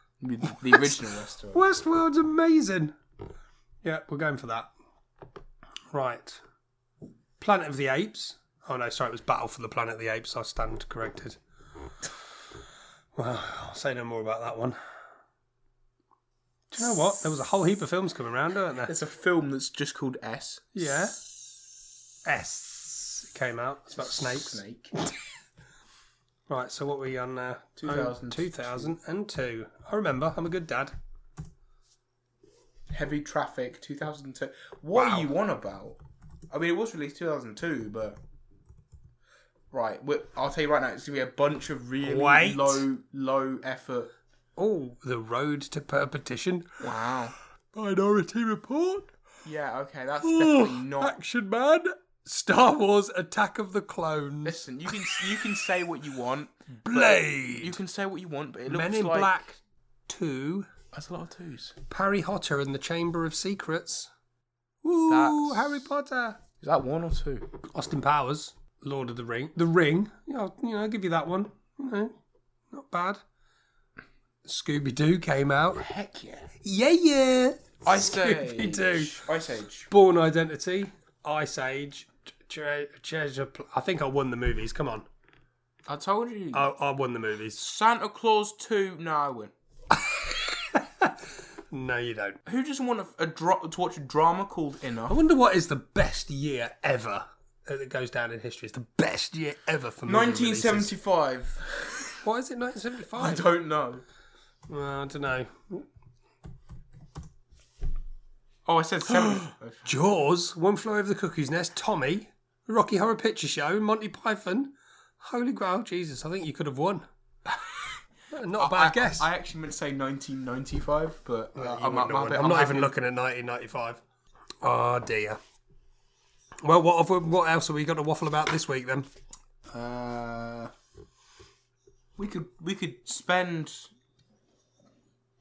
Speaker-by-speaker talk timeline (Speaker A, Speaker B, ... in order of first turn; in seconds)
Speaker A: 0.2-1.6, 16.8-17.2, 18.9-21.5, 23.9-24.9, 27.8-28.9, 32.9-36.0, 36.5-38.2, 39.7-44.1, 46.8-47.3, 49.4-51.2, 54.4-59.3, 60.9-61.8, 65.1-65.8, 66.6-67.5, 75.8-76.5, 77.8-79.9, 85.9-86.7, 87.5-89.5, 92.5-95.2, 100.0-102.2, 103.1-104.0, 108.7-109.9, 117.5-118.0, 118.5-122.9, 129.7-130.7, 132.2-133.9
Speaker B: 0.5-1.0, 1.5-2.9, 3.8-4.7, 5.9-6.4, 7.4-11.4, 13.1-14.8, 16.7-18.9, 20.7-21.2, 22.2-24.6, 26.5-30.9, 34.9-35.3, 42.0-42.8, 44.6-46.8, 47.7-49.1, 50.2-55.4, 56.9-57.8, 58.7-60.7, 61.9-64.1, 64.8-66.4, 67.7-72.1, 72.7-73.2, 74.4-75.9, 76.6-79.2, 79.9-85.0, 86.5-87.6, 89.9-92.4, 95.1-100.9, 102.2-103.5, 104.7-105.8, 109.2-117.0, 118.3-119.3, 121.5-124.0, 124.6-125.4, 126.6-129.1